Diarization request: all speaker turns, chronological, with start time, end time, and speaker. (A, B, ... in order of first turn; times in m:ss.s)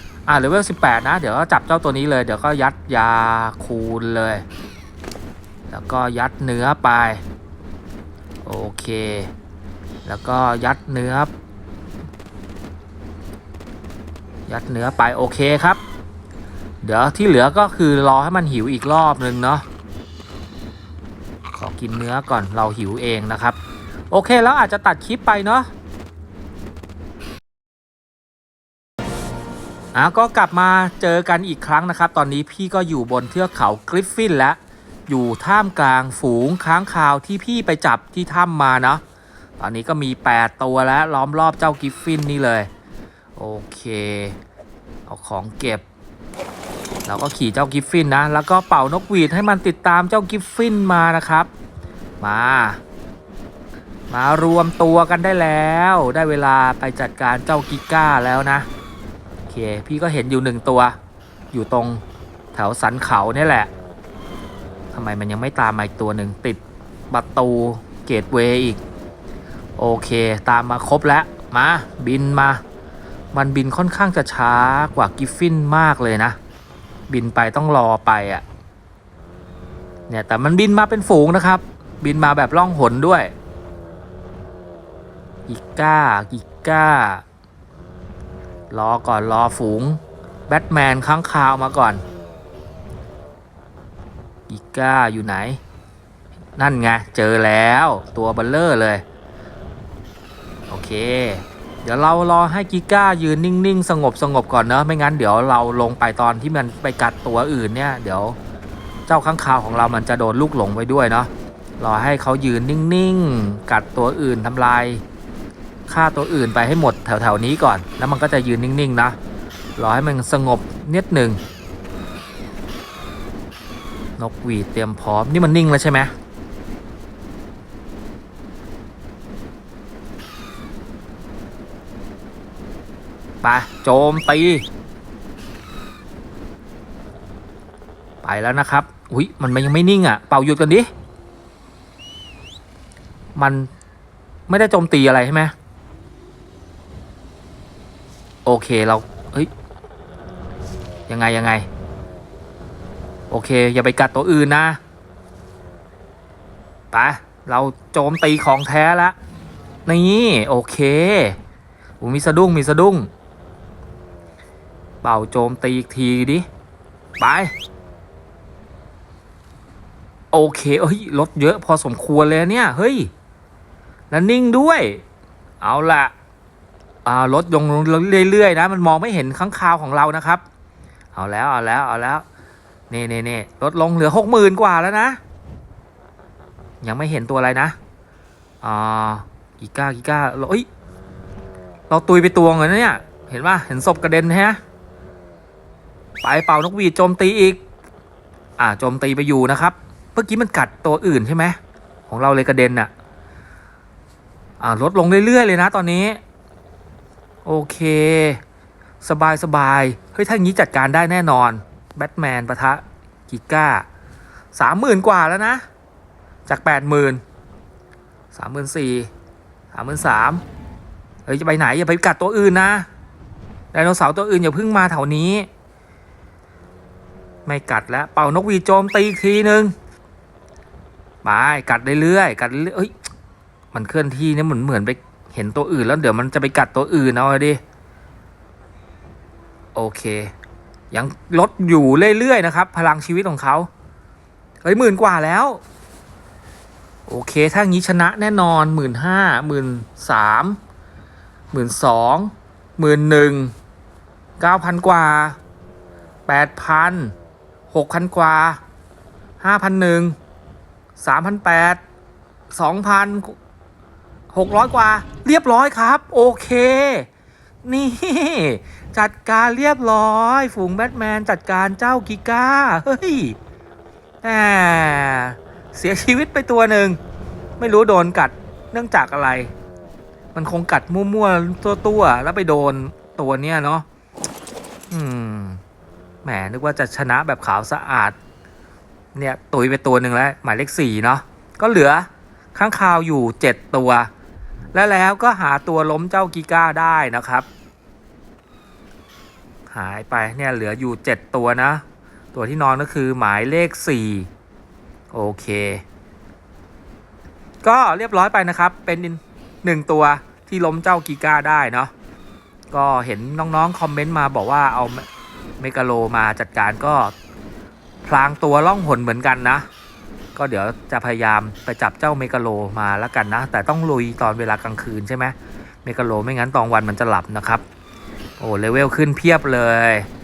0:00.3-0:04.4 A
0:05.7-0:07.2 A
0:08.4-0:09.3 A
0:10.0-0:11.3 A
0:14.5-0:15.8 A
0:16.8-0:19.6 A
0:21.5-0:23.6 A
0:24.1-0:25.7 A
0:29.9-0:39.0 A
0:39.6-0:42.7 A
0:43.4-0:44.4 A
0:45.1-0:45.8 A
0:47.1-0:51.5 A
0:52.2-0:52.8 A
0:54.1-0:58.7 A
0:59.5-1:01.0 A
1:01.5-1:02.0 A
1:02.5-1:03.7 A
1:04.9-1:08.8 A
1:09.8-1:12.6 A
1:13.3-1:16.4 A
1:17.1-1:18.4 A
1:20.1-1:23.3 A
1:25.5-1:27.2 A
1:28.7-1:32.0 A
1:34.5-1:35.6 A
1:36.6-1:39.0 A
1:40.7-1:48.4 A
1:49.1-1:55.0 A
1:55.9-1:59.2 A
1:59.8-2:01.4 A
2:04.2-2:06.1 A
2:13.4-2:14.7 A
2:18.2-2:20.9 A
2:23.4-2:23.7 A
2:24.5-2:25.5 A
2:28.4-2:29.5 A
2:31.1-2:31.7 A
2:33.3-2:34.8 A
2:36.9-2:39.2 A
2:39.9-2:41.4 A
2:42.0-2:43.1 A
2:45.0-2:46.5 A
2:47.2-2:47.5 A
2:50.3-2:53.1 A
2:54.1-2:55.0 A
2:55.6-2:56.1 A
2:57.0-3:00.4 A
3:01.2-3:02.2 A
3:02.9-3:05.2 A
3:06.8-3:07.8 A
3:08.6-3:10.7 A
3:11.9-3:14.6 A
3:16.2-3:17.6 A
3:18.6-3:22.9 A
3:24.6-3:26.2 A
3:27.4-3:28.4 A
3:29.0-3:33.9 A
3:34.5-3:35.6 A
3:36.5-3:37.2 A
3:38.3-3:39.1 A
3:39.7-3:40.4 A
3:41.3-3:42.9 A
3:43.7-3:45.5 A
3:47.5-3:49.7 A
3:51.2-3:52.9 A
3:53.7-3:57.6 A
3:59.8-4:00.3 A
4:00.9-4:03.7 A
4:04.6-4:05.6 A
4:07.1-4:10.6 A
4:11.5-4:13.5 A
4:14.4-4:15.4 A
4:16.3-4:17.1 A
4:17.7-4:18.6 A
4:19.4-4:20.2 A
4:21.0-4:21.8 A
4:22.5-4:23.4 A
4:24.3-4:27.1 A
4:27.6-4:33.4 A
4:34.2-4:37.0 A
4:37.6-4:39.5 A
4:40.3-4:43.8 A
4:44.9-4:45.6 A
4:46.2-4:48.2 A
4:49.2-4:54.1 A
4:54.7-4:57.5 A
4:59.7-5:01.8 A
5:02.3-5:04.3 A
5:05.1-5:05.8 A
5:07.6-5:11.9 A
5:12.7-5:15.1 A
5:15.6-5:17.1 A
5:18.0-5:19.6 A
5:20.4-5:27.6 A
5:28.4-5:30.1 A